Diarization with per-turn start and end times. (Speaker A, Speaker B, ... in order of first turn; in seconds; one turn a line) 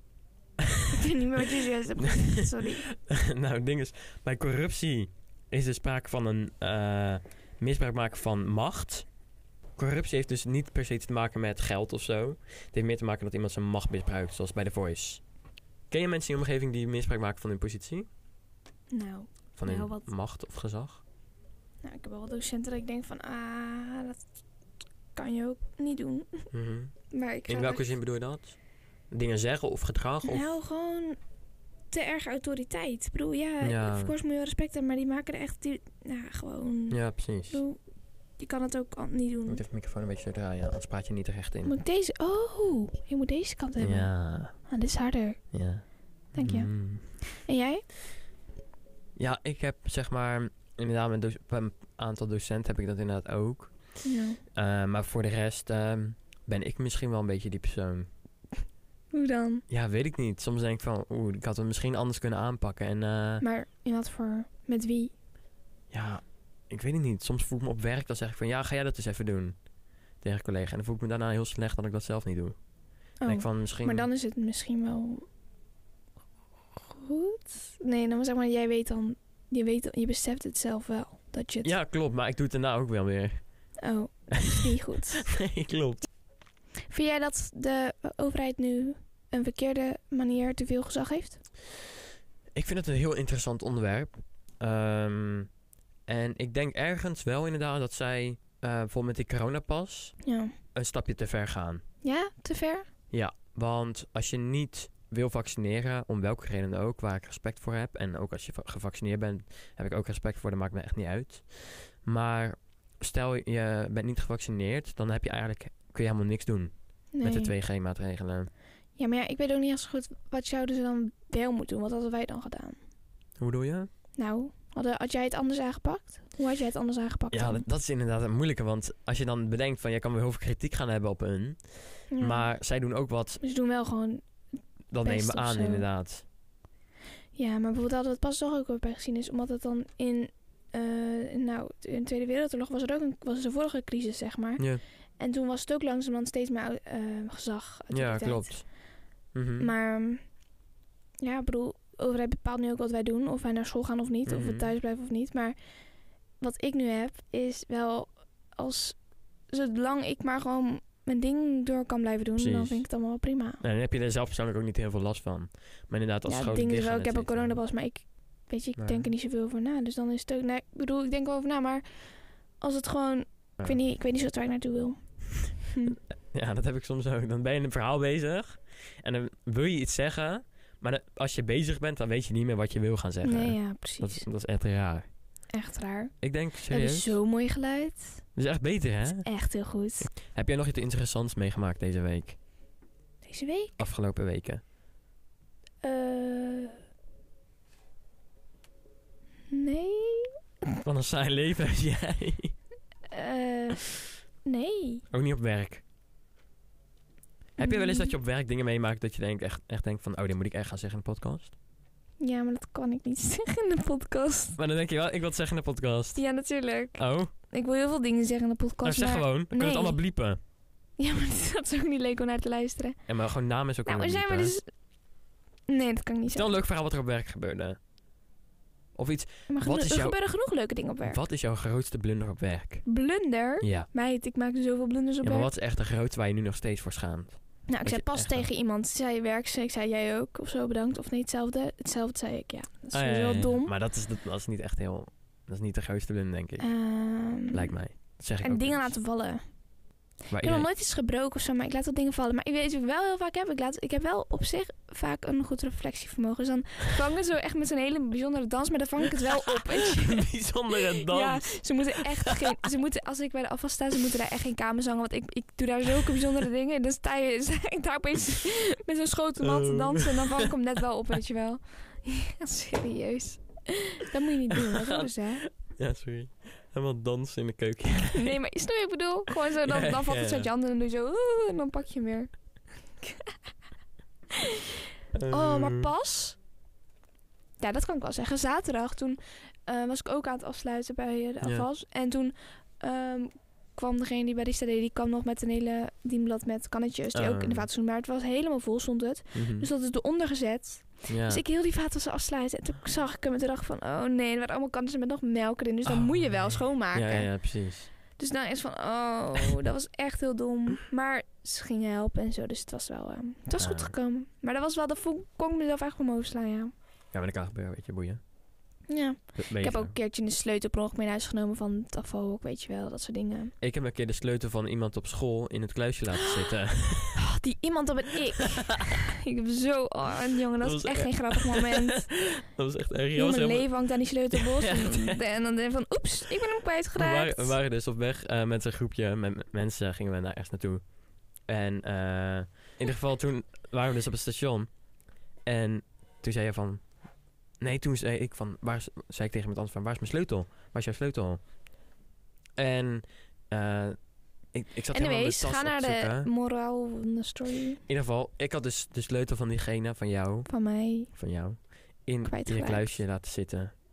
Speaker A: 0.9-2.9
Speaker B: 2.4-9.1
Speaker B: 9.8-15.3
Speaker B: 15.9-18.1
Speaker A: 18.9-20.1
Speaker B: 19.6-21.0
Speaker A: 21.8-24.2
Speaker A: 25.1-26.5
Speaker B: 26.5-28.6
Speaker A: 27.1-27.9
Speaker B: 29.1-30.5
Speaker A: 30.2-31.2
Speaker A: 31.9-37.8
Speaker B: 33.6-34.1
Speaker B: 36.9-37.6
Speaker A: 38.4-39.6
Speaker B: 39.5-41.8
Speaker A: 41.6-45.6
Speaker B: 43.8-44.5
Speaker B: 45.5-47.3
Speaker A: 46.3-47.9
Speaker B: 49.2-58.1
Speaker A: 54.0-54.4
Speaker A: 59.1-59.6
Speaker B: 59.7-63.4
Speaker A: 63.4-65.1
Speaker B: 65.9-69.6
Speaker B: 70.2-72.6
Speaker B: 73.2-74.1
Speaker A: 73.2-75.3
Speaker A: 76.9-81.8
Speaker B: 81.6-83.8
Speaker A: 83.8-85.3
Speaker B: 85.2-86.1
Speaker A: 86.9-91.4
Speaker B: 92.5-95.5
Speaker B: 96.1-101.8
Speaker A: 100.2-100.5
Speaker A: 102.0-102.9
Speaker B: 103.1-118.5
Speaker A: 117.1-117.5
Speaker A: 119.0-122.8
Speaker B: 123.4-123.9
Speaker A: 124.2-127.7
Speaker B: 127.3-133.4
Speaker A: 132.1-132.6
Speaker A: 133.4-134.4
Speaker B: 134.9-136.2
Speaker A: 135.0-135.9
Speaker A: 137.3-148.8
Speaker B: 147.9-148.8
Speaker B: 149.3-149.7
Speaker A: 149.6-150.3
Speaker A: 151.2-155.6
Speaker B: 154.2-154.7
Speaker A: 156.4-163.6
Speaker B: 162.4-162.9
Speaker B: 163.6-167.6
Speaker A: 166.2-176.0
Speaker B: 168.8-169.1
Speaker B: 176.3-185.1
Speaker A: 183.2-184.2
Speaker A: 185.5-188.2
Speaker B: 186.2-187.2
Speaker B: 188.3-192.4
Speaker A: 189.1-190.1
Speaker A: 193.2-193.7
Speaker B: 193.8-194.6
Speaker A: 195.8-196.8
Speaker A: 199.5-200.4
Speaker B: 200.8-202.6
Speaker A: 203.1-205.0
Speaker B: 205.1-205.8
Speaker A: 207.6-208.2
Speaker B: 207.6-211.5
Speaker A: 212.2-214.6
Speaker B: 214.6-216.3
Speaker A: 216.1-220.0
Speaker B: 216.9-217.3
Speaker B: 218.8-220.4
Speaker A: 221.0-223.0
Speaker B: 223.1-224.6
Speaker A: 223.8-224.7
Speaker A: 225.7-226.6
Speaker B: 226.3-227.8
Speaker B: 228.9-230.4
Speaker A: 229.5-231.2
Speaker B: 231.0-233.0
Speaker A: 232.8-235.5
Speaker B: 233.6-233.9
Speaker B: 235.2-238.5
Speaker A: 237.7-243.7
Speaker B: 242.9-249.0
Speaker A: 246.6-249.6
Speaker B: 250.3-250.7
Speaker A: 250.3-260.2
Speaker B: 260.0-262.5
Speaker A: 260.8-275.4
Speaker B: 269.4-270.5
Speaker B: 274.6-278.4
Speaker A: 278.1-282.4
Speaker B: 279.6-280.5
Speaker A: 283.0-283.3
Speaker B: 285.1-285.9
Speaker A: 285.3-286.4
Speaker A: 287.6-307.5
Speaker B: 291.4-291.7
Speaker B: 297.1-297.7
Speaker B: 299.3-299.7
Speaker B: 301.1-301.4
Speaker B: 305.8-307.9
Speaker A: 308.2-316.7
Speaker B: 313.6-313.9
Speaker B: 317.1-318.2
Speaker A: 318.9-323.5
Speaker B: 319.3-319.9
Speaker B: 323.6-327.2
Speaker A: 327.1-332.2
Speaker B: 330.6-335.2
Speaker A: 333.1-337.6
Speaker B: 336.9-344.8
Speaker B: 345.4-351.4
Speaker B: 352.6-356.3
Speaker A: 354.9-357.8
Speaker B: 357.9-363.7
Speaker A: 360.5-361.1
Speaker A: 362.2-362.9